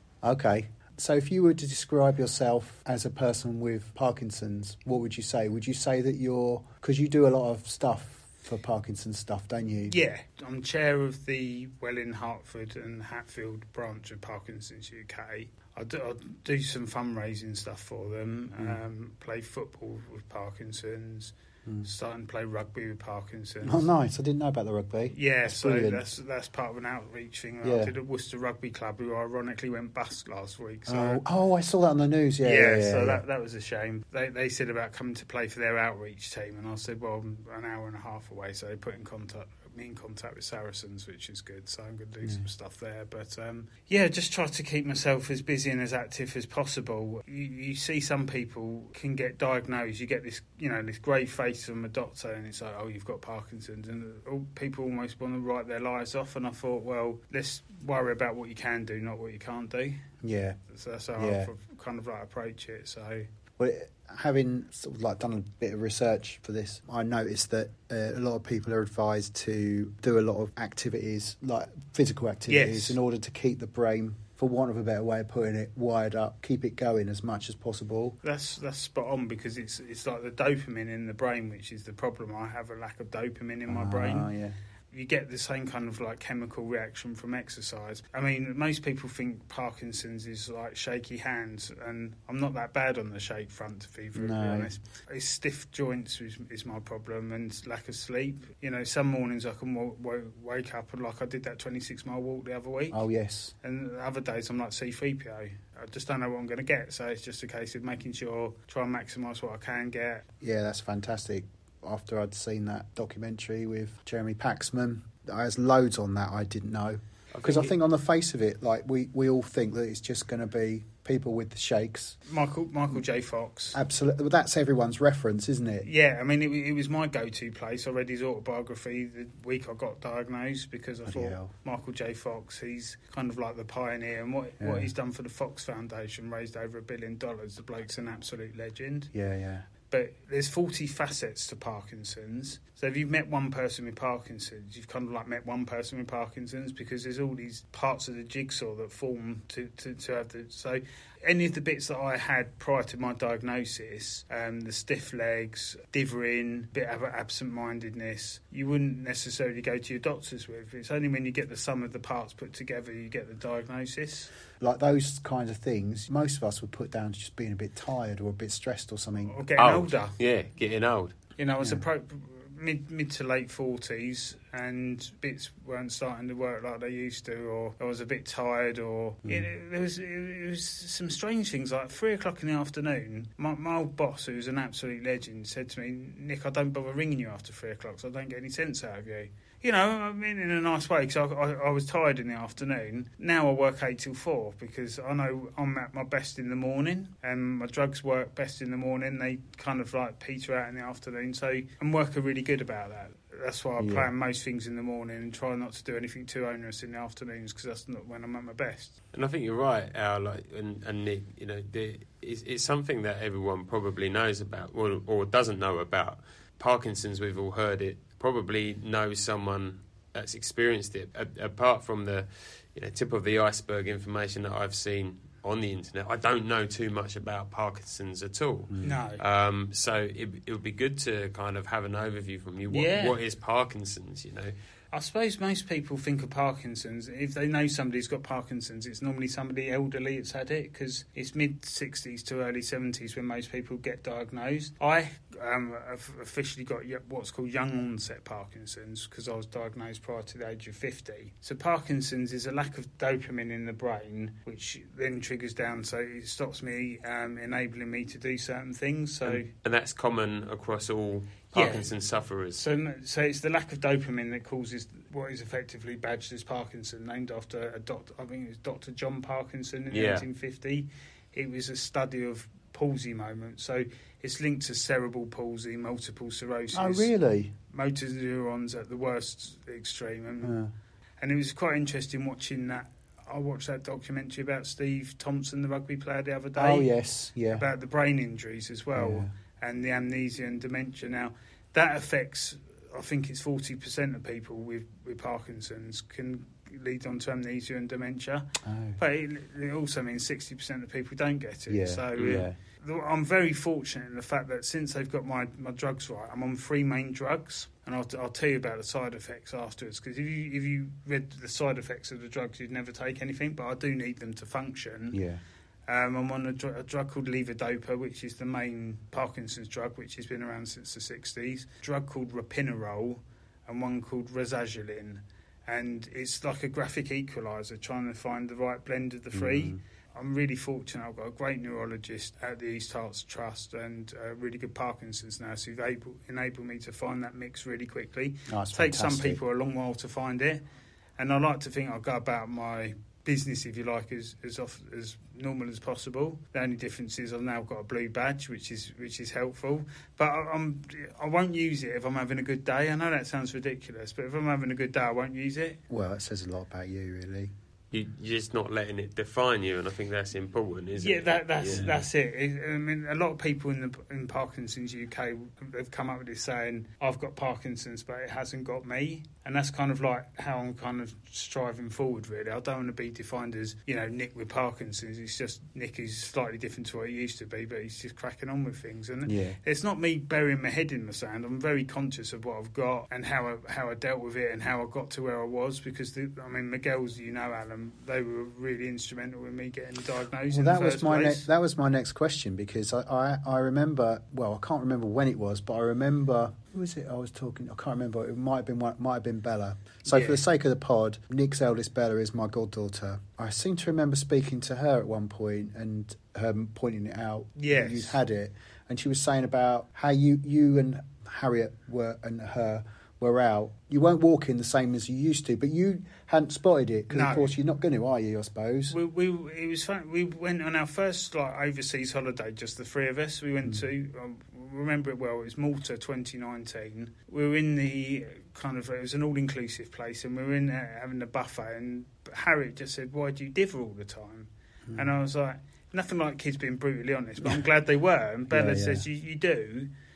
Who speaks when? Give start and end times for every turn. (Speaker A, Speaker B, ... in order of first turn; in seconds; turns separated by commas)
Speaker A: 0.2-9.9, Speaker B: 9.9-21.3, Speaker B: 21.8-23.9, Speaker A: 23.6-26.0, Speaker B: 25.1-31.2, Speaker A: 27.6-27.9, Speaker A: 30.9-33.2, Speaker B: 32.4-60.0, Speaker A: 60.2-60.6, Speaker B: 60.7-63.3, Speaker A: 61.1-61.5, Speaker A: 63.6-78.2, Speaker B: 72.5-73.0, Speaker B: 78.2-84.3, Speaker A: 83.7-84.6, Speaker B: 84.9-103.0, Speaker A: 94.2-94.7, Speaker A: 102.9-103.5, Speaker B: 103.6-110.2, Speaker A: 110.4-122.2, Speaker C: 117.4-117.7, Speaker B: 122.2-123.8, Speaker A: 123.7-125.9, Speaker B: 125.8-139.1, Speaker A: 131.1-131.5, Speaker A: 134.6-134.9, Speaker A: 139.1-139.7, Speaker B: 139.9-164.3, Speaker A: 164.6-169.3, Speaker B: 169.2-170.1, Speaker C: 169.6-171.2, Speaker B: 171.4-208.9, Speaker A: 203.8-204.1, Speaker C: 209.1-234.5, Speaker B: 228.8-229.2, Speaker B: 232.7-233.2, Speaker B: 234.9-259.5, Speaker C: 259.2-262.6, Speaker B: 261.5-261.9, Speaker B: 262.5-277.1, Speaker C: 269.9-270.2, Speaker A: 276.7-277.5, Speaker B: 277.7-280.6, Speaker A: 280.4-280.7, Speaker B: 281.2-286.9, Speaker A: 286.6-287.6, Speaker B: 287.5-315.2, Speaker A: 288.9-289.3, Speaker A: 298.6-299.0, Speaker A: 301.7-302.6, Speaker A: 315.1-315.4, Speaker B: 315.9-340.6, Speaker A: 329.3-329.8, Speaker A: 338.5-339.4, Speaker B: 341.2-355.8, Speaker A: 355.9-357.5, Speaker C: 357.9-362.0, Speaker B: 361.0-391.5, Speaker A: 361.7-362.0, Speaker A: 379.2-379.6, Speaker A: 390.5-418.9, Speaker B: 400.1-400.4, Speaker B: 407.6-408.2, Speaker B: 417.1-417.6, Speaker B: 418.9-439.9, Speaker A: 438.5-439.0